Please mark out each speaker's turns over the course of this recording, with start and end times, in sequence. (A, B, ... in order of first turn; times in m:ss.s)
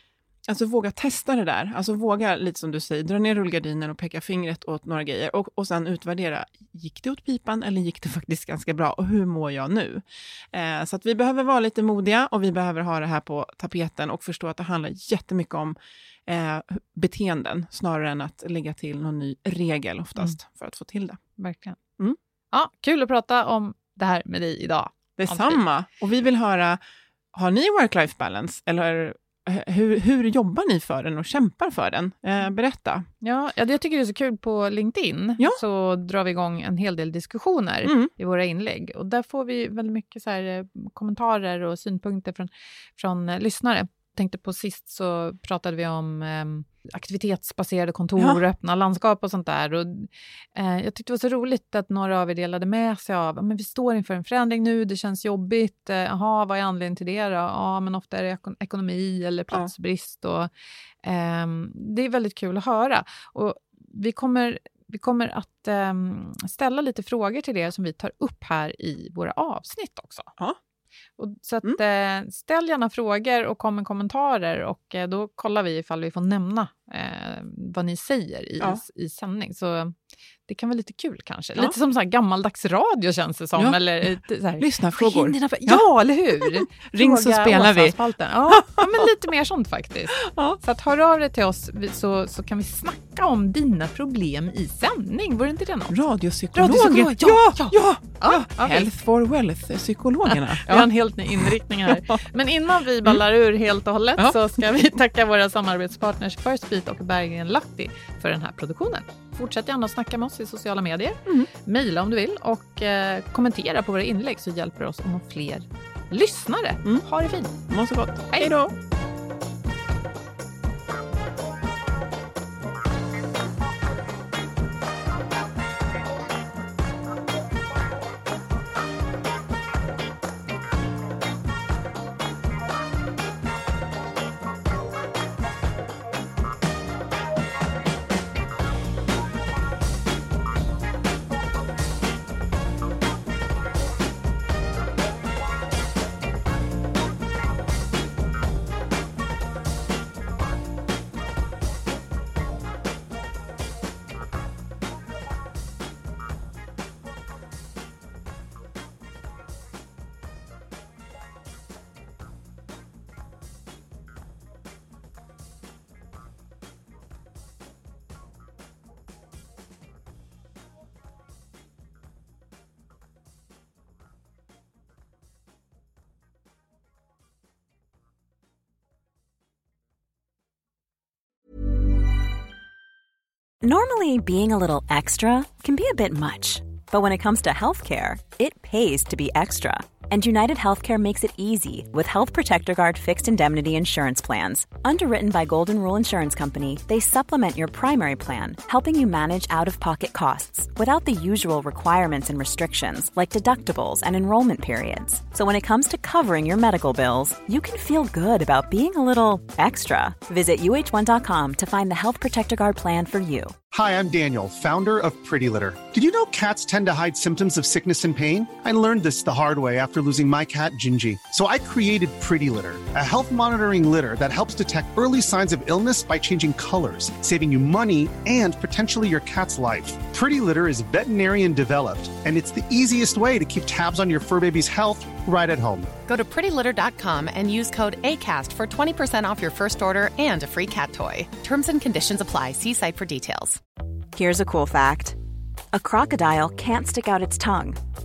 0:00.5-0:21.2 A
0:21.4-0:21.8 B
0:22.5-0:25.6 B
0:25.2-0:26.8 A
0:27.3-0:33.1 A
0:33.2-1:00.5 B
0:37.8-0:38.1 A
1:01.0-1:10.3 B
1:11.2-1:20.0 B
1:20.5-1:36.0 B
1:23.6-1:25.8 A
1:26.4-1:28.0 A
1:28.5-1:29.1 A
1:30.2-1:30.6 A
1:35.9-1:42.0 A
1:36.5-1:38.9 B
1:40.3-1:57.7 B
1:57.7-1:58.7 A
3:03.6-3:33.6 C
3:33.7-3:55.9 D
3:56.0-4:03.6 E
4:04.1-4:05.2 C
4:05.7-4:07.8 C